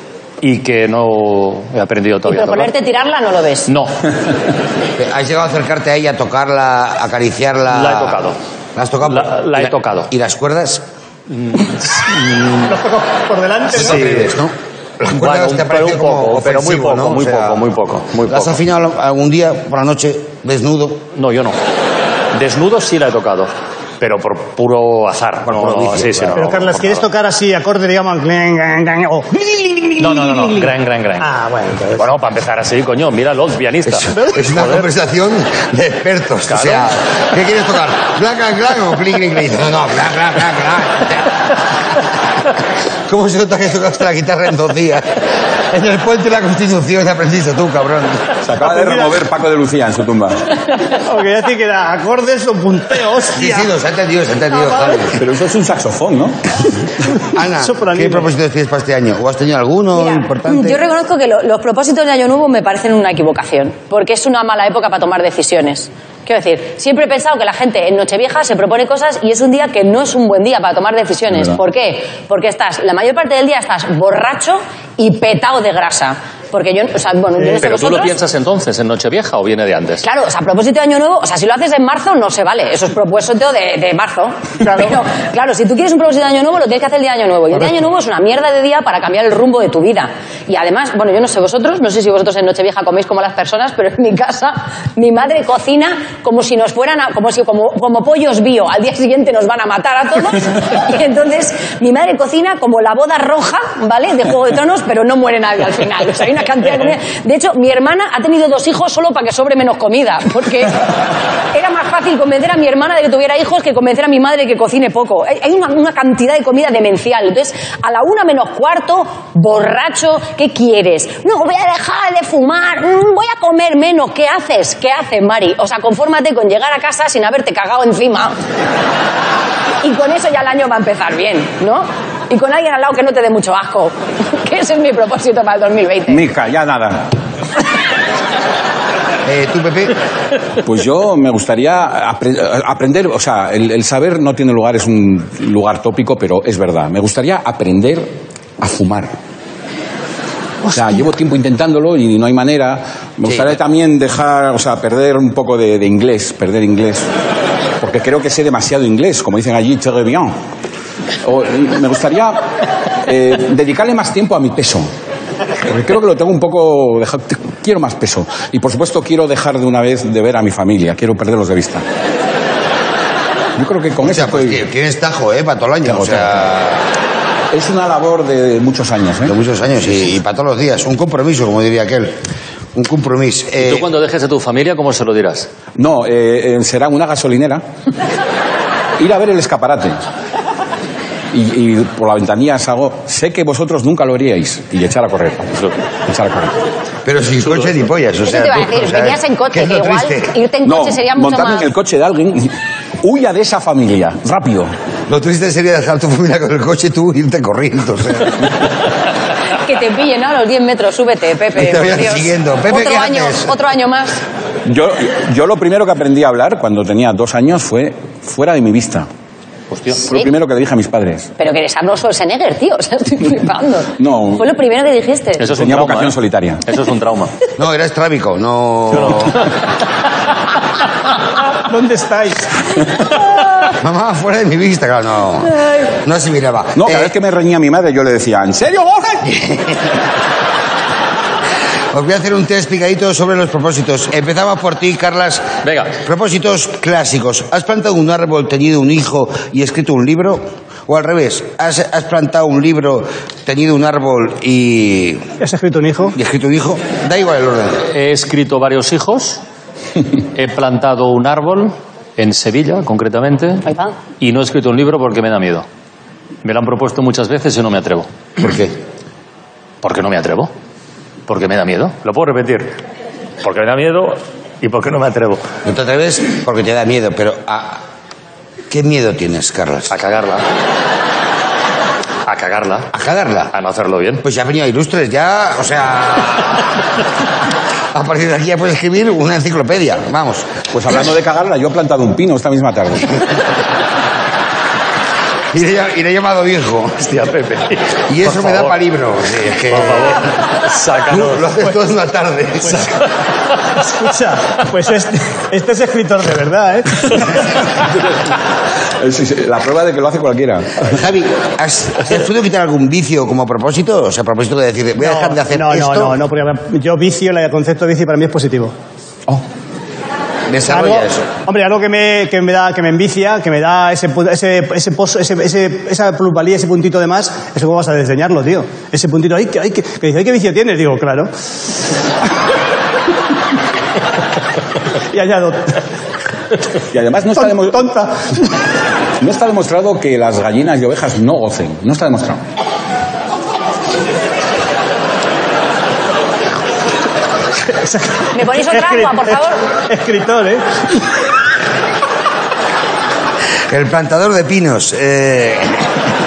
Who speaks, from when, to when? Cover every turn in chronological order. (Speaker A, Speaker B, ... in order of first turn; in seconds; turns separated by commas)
Speaker A: 0.4-2.7, Speaker B: 2.2-3.7, Speaker A: 3.7-4.0, Speaker C: 5.0-8.2, Speaker A: 7.7-8.4, Speaker C: 8.7-10.8, Speaker A: 9.0-10.1, Speaker A: 11.3-12.7, Speaker D: 12.7-14.0, Speaker C: 13.7-17.6, Speaker A: 13.8-14.3, Speaker A: 15.0-18.6, Speaker C: 18.3-21.0, Speaker A: 21.1-21.6, Speaker A: 22.3-27.1, Speaker C: 25.4-26.3, Speaker D: 26.3-32.1, Speaker A: 30.0-31.3, Speaker A: 31.9-34.9, Speaker C: 33.9-41.5, Speaker A: 36.5-37.0, Speaker C: 43.1-48.4, Speaker E: 48.4-50.5, Speaker D: 48.6-49.2, Speaker D: 50.9-53.7, Speaker C: 53.4-55.2, Speaker E: 55.1-56.5, Speaker C: 57.3-60.8, Speaker D: 57.5-58.3, Speaker B: 60.0-78.2, Speaker A: 77.6-80.0, Speaker B: 80.0-110.8, Speaker B: 111.5-128.3, Speaker B: 129.8-136.2, Speaker E: 136.1-137.1, Speaker C: 139.2-140.0, Speaker E: 140.6-149.1, Speaker E: 150.7-157.1, Speaker E: 157.8-160.3, Speaker E: 161.2-162.4, Speaker E: 163.0-164.9, Speaker E: 165.6-171.8, Speaker E: 173.6-174.6, Speaker C: 174.0-176.8, Speaker E: 175.8-176.4, Speaker E: 177.5-179.3, Speaker C: 179.2-182.2, Speaker C: 182.7-183.9, Speaker A: 183.6-185.5, Speaker E: 185.8-187.6, Speaker E: 189.0-190.0, Speaker E: 191.3-195.5, Speaker E: 196.1-196.5, Speaker C: 197.0-200.3, Speaker B: 198.2-201.7, Speaker E: 200.6-204.7, Speaker C: 205.1-208.5, Speaker B: 209.6-214.2, Speaker C: 211.5-213.5, Speaker E: 214.7-219.1, Speaker A: 219.7-220.0, Speaker B: 220.0-220.3, Speaker E: 220.0-221.3, Speaker B: 221.4-225.6, Speaker E: 224.0-224.4, Speaker A: 225.4-226.1, Speaker E: 225.5-226.6, Speaker A: 226.7-227.3, Speaker C: 227.6-229.4, Speaker D: 231.7-232.7, Speaker C: 233.8-237.1, Speaker E: 236.8-239.2, Speaker C: 239.2-239.9, Speaker C: 241.9-245.5, Speaker A: 245.6-245.9, Speaker C: 246.0-255.2, Speaker D: 255.4-256.1, Speaker C: 256.1-257.9, Speaker A: 257.9-259.4, Speaker A: 260.3-263.6, Speaker B: 263.6-263.9, Speaker A: 264.2-265.6, Speaker A: 266.4-268.1, Speaker C: 268.4-268.7, Speaker A: 269.8-270.5, Speaker A: 271.3-272.8, Speaker A: 273.4-275.4, Speaker C: 275.6-277.8, Speaker C: 278.7-279.9, Speaker A: 279.9-280.4, Speaker A: 282.2-282.9, Speaker C: 282.9-283.5, Speaker A: 283.5-284.2, Speaker C: 284.2-286.7, Speaker C: 287.9-290.6, Speaker E: 290.7-293.2, Speaker C: 295.5-297.1, Speaker A: 297.0-298.8, Speaker C: 298.1-300.3, Speaker A: 299.7-301.5, Speaker C: 301.1-302.9, Speaker D: 303.7-307.5, Speaker E: 307.8-308.3, Speaker E: 309.0-310.9, Speaker C: 310.8-316.2, Speaker D: 315.0-318.7, Speaker C: 320.5-321.3, Speaker D: 320.7-331.3, Speaker D: 335.1-335.8, Speaker E: 336.9-337.8, Speaker D: 337.4-338.5, Speaker E: 339.2-342.4, Speaker D: 347.7-349.4, Speaker B: 348.3-349.6, Speaker D: 349.9-351.0, Speaker C: 353.7-355.9